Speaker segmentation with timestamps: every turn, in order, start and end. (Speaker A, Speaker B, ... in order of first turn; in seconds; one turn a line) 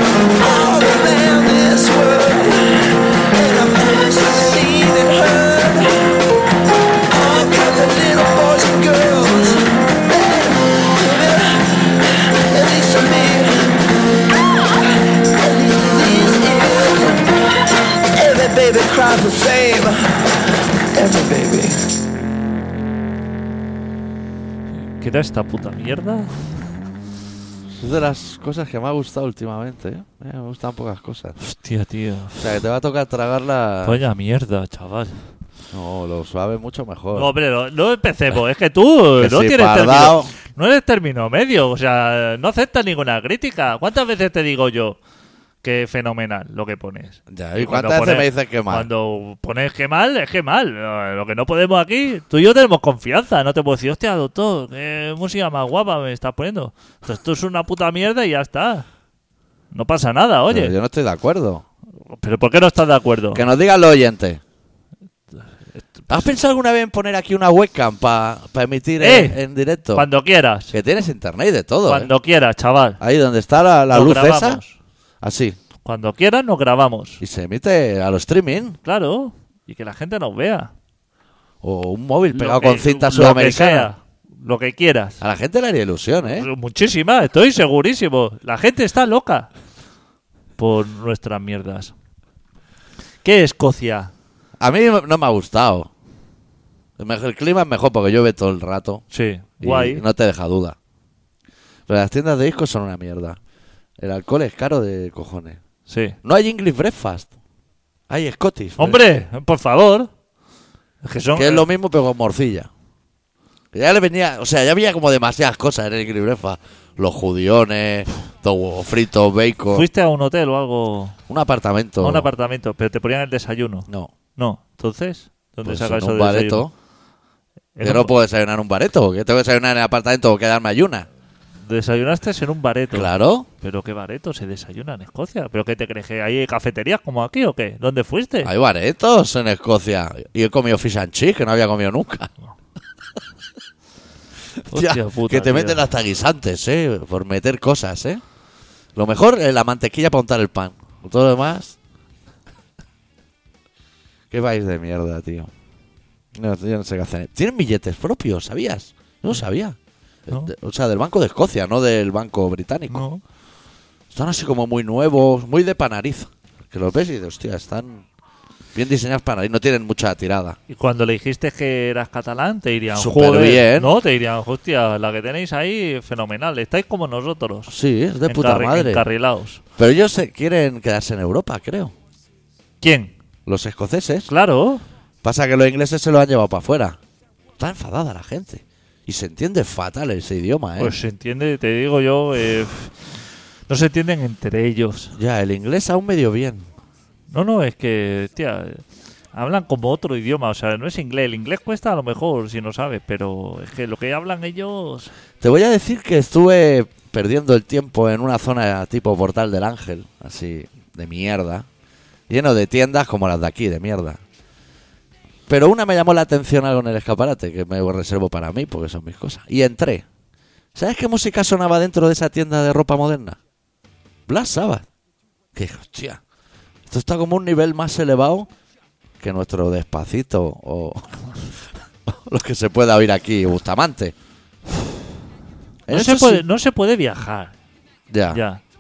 Speaker A: 0.4-6.2
Speaker A: 7.1-13.9
Speaker A: 14.5-17.3
Speaker A: 18.1-21.9
Speaker B: 25.0-26.4
Speaker C: 27.8-31.4
Speaker B: 31.4-32.6
Speaker C: 32.4-34.0
Speaker B: 33.8-35.3
Speaker C: 35.7-37.3
Speaker B: 37.1-45.0
Speaker C: 39.2-40.3
Speaker B: 45.6-58.9
Speaker C: 47.3-48.9
Speaker B: 59.7-60.8
Speaker C: 60.5-61.6
Speaker B: 62.2-63.5
Speaker C: 63.3-64.4
Speaker B: 65.7-66.2
Speaker C: 66.1-70.1
Speaker B: 69.0-69.4
Speaker B: 69.9-70.7
Speaker C: 70.7-72.1
Speaker B: 71.9-73.0
Speaker C: 73.0-74.6
Speaker B: 73.9-74.8
Speaker C: 75.2-75.6
Speaker B: 75.8-77.2
Speaker C: 77.2-78.8
Speaker B: 78.8-80.7
Speaker C: 81.6-83.9
Speaker B: 82.3-85.2
Speaker C: 85.2-86.5
Speaker B: 86.3-89.5
Speaker B: 90.6-91.9
Speaker B: 93.2-94.1
Speaker C: 94.6-95.9
Speaker C: 97.0-99.0
Speaker B: 99.1-100.0
Speaker C: 99.6-100.8
Speaker C: 101.9-103.4
Speaker C: 104.0-105.6
Speaker B: 105.9-106.2
Speaker C: 106.2-107.3
Speaker C: 108.1-109.0
Speaker B: 108.8-110.1
Speaker B: 111.0-111.7
Speaker C: 111.4-112.7
Speaker C: 113.7-119.9
Speaker B: 119.7-121.2
Speaker C: 121.3-122.3
Speaker B: 122.0-126.7
Speaker C: 123.9-124.1
Speaker C: 125.6-126.7
Speaker B: 127.8-128.1
Speaker C: 127.8-131.1
Speaker B: 131.6-133.1
Speaker C: 132.9-133.5
Speaker B: 133.6-138.5
Speaker C: 138.4-142.3
Speaker C: 144.7-148.2
Speaker B: 144.7-145.9
Speaker C: 148.9-151.8
Speaker C: 154.3-155.5
Speaker C: 156.3-159.8
Speaker C: 160.3-163.1
Speaker B: 162.9-163.2
Speaker C: 164.1-168.1
Speaker C: 168.8-170.6
Speaker B: 170.7-177.8
Speaker C: 172.9-173.9
Speaker C: 177.7-179.1
Speaker B: 178.3-179.6
Speaker C: 179.8-181.9
Speaker B: 182.8-183.1
Speaker C: 183.5-184.3
Speaker B: 184.3-184.8
Speaker C: 185.2-187.0
Speaker C: 187.6-191.0
Speaker B: 190.8-193.1
Speaker B: 193.7-195.2
Speaker C: 195.2-196.7
Speaker B: 197.3-205.1
Speaker C: 205.4-211.7
Speaker C: 212.3-214.2
Speaker C: 215.5-220.1
Speaker C: 220.8-223.4
Speaker C: 224.3-224.9
Speaker C: 225.5-226.2
Speaker C: 226.9-228.5
Speaker C: 229.2-231.3
Speaker C: 232.1-234.1
Speaker C: 235.9-236.4
Speaker B: 235.9-237.6
Speaker C: 238.1-238.4
Speaker B: 238.3-238.6